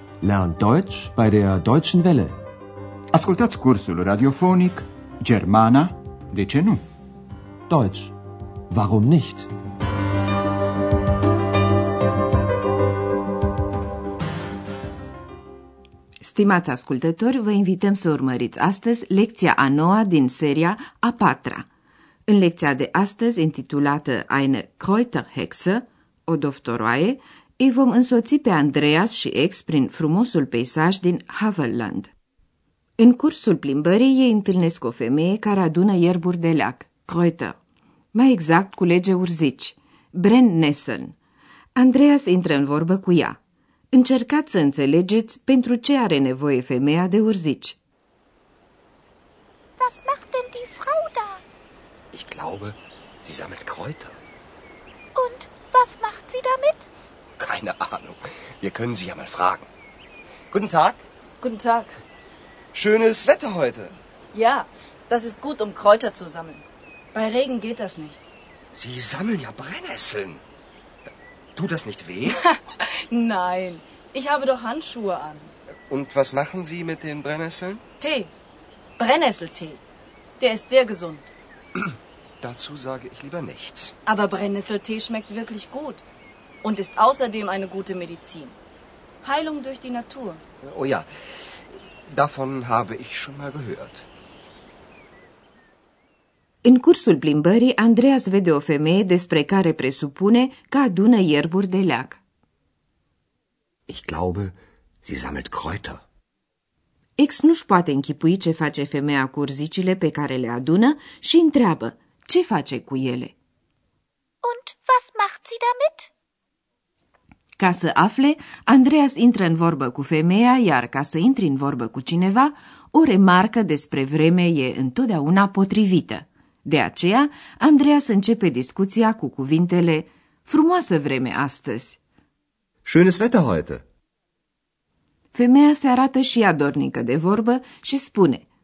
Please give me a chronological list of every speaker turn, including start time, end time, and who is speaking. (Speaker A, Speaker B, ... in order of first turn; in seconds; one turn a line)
Speaker A: 0.2-2.4
Speaker B: 3.1-6.8
Speaker A: 7.7-8.1
Speaker A: 8.7-9.5
Speaker C: 16.2-21.7
Speaker C: 22.3-32.1
Speaker C: 33.0-37.5
Speaker C: 38.1-41.1
Speaker C: 41.8-43.4
Speaker C: 43.9-47.8
Speaker D: 49.8-51.4
Speaker E: 52.1-54.2
Speaker D: 55.1-56.9
Speaker E: 57.4-59.7
Speaker E: 60.5-61.0
Speaker F: 61.4-62.0
Speaker E: 62.7-63.9
Speaker F: 64.3-68.2
Speaker E: 68.7-70.4
Speaker E: 71.5-72.4
Speaker F: 72.3-75.5
Speaker E: 75.9-77.8
Speaker F: 78.0-78.3
Speaker F: 79.0-79.8
Speaker F: 80.4-81.3
Speaker E: 82.4-83.9
Speaker F: 84.0-86.0
Speaker F: 86.6-88.5
Speaker F: 89.2-90.4
Speaker E: 90.6-91.1
Speaker E: 91.7-94.0
Speaker C: 96.6-102.2
Speaker E: 103.9-106.0
Speaker C: 107.2-113.3
Speaker D: 114.4-116.1
Speaker C: 117.6-132.0
Speaker E: 132.8-133.8
Speaker C: 135.3-138.4